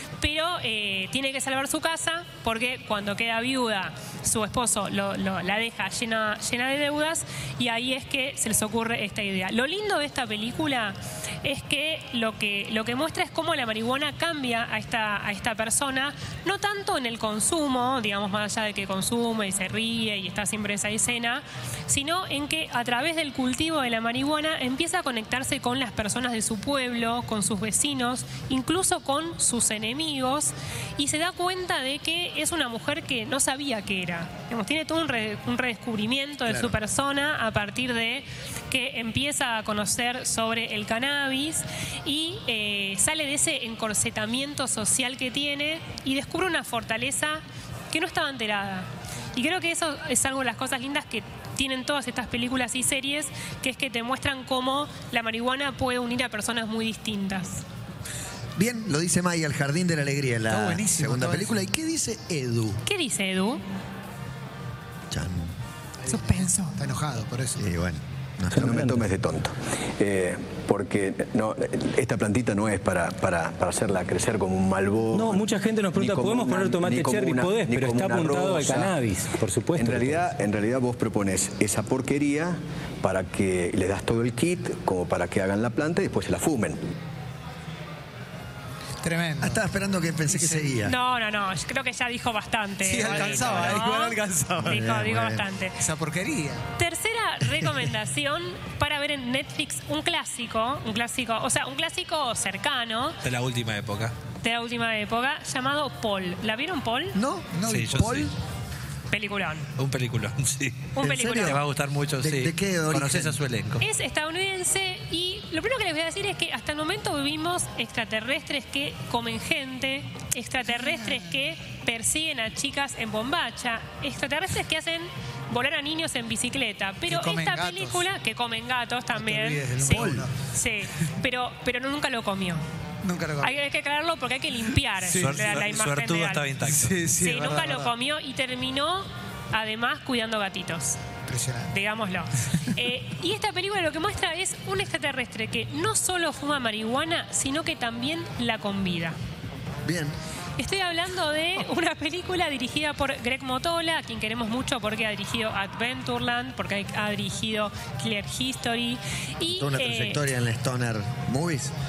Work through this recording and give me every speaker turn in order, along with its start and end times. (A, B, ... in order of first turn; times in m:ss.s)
0:00.2-0:57.6 A
0:58.6-1:02.8 B
1:00.5-1:01.5 C
1:02.8-1:03.6 A
1:05.1-1:05.5 B
1:06.0-1:07.6 C
1:07.6-1:09.0 B
1:08.5-1:19.1 D
1:16.2-1:19.4 E
1:19.7-1:26.8 D
1:29.0-1:29.6 C
1:29.4-1:30.9 B
1:30.3-1:30.8 C
1:30.8-1:35.8 A
1:32.8-1:34.7 C
1:34.6-1:35.4 B
1:35.8-1:36.6 C
1:36.8-1:43.2 A
1:43.2-1:44.1 F
1:44.4-1:47.2 A
1:47.1-1:48.3 B
1:47.5-1:48.0 C
1:47.7-1:48.3 F
1:49.1-1:49.7 A
1:49.8-1:53.8 F
1:51.0-1:51.6 A
1:51.0-1:51.6 B
1:52.2-1:53.4 B
1:53.8-2:12.6 A
2:07.1-2:08.0 C
2:09.1-2:10.3 C
2:13.0-2:13.5 C
2:13.4-2:16.5 A
2:15.0-2:15.6 C
2:15.1-2:17.0 F
2:16.6-2:17.9 C
2:17.2-2:21.0 A
2:21.3-2:21.7 C
2:21.7-2:29.2 A
2:29.8-2:30.2 B
2:30.6-2:40.3 A
2:39.5-2:41.7 B